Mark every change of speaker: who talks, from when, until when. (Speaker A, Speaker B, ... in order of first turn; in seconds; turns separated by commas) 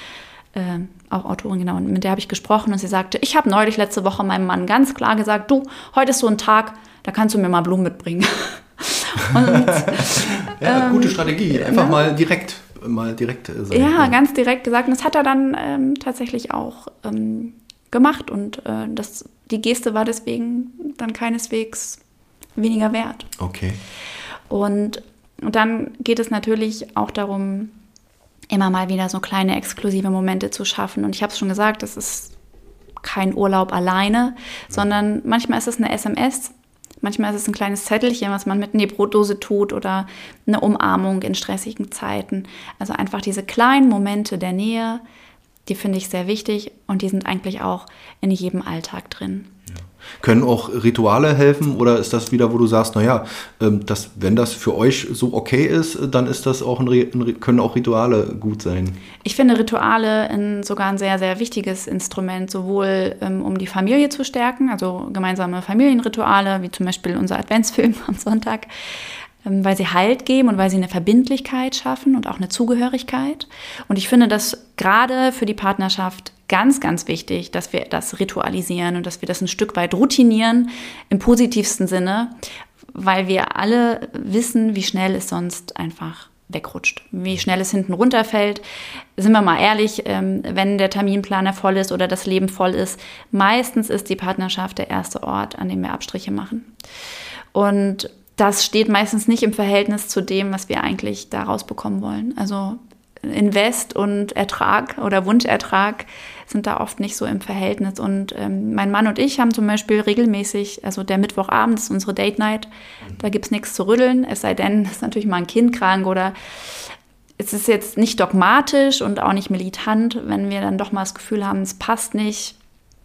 Speaker A: 0.5-12.0, Speaker B: 9.7-14.2, Speaker A: 13.7-22.0, Speaker A: 22.6-23.3, Speaker B: 23.4-23.8, Speaker A: 24.5-27.7, Speaker A: 28.5-32.3, Speaker A: 33.0-45.0, Speaker A: 45.7-49.5, Speaker B: 50.2-59.0, Speaker A: 59.2-68.7, Speaker A: 69.4-82.3, Speaker A: 82.9-88.6, Speaker A: 89.2-96.7, Speaker A: 97.5-122.5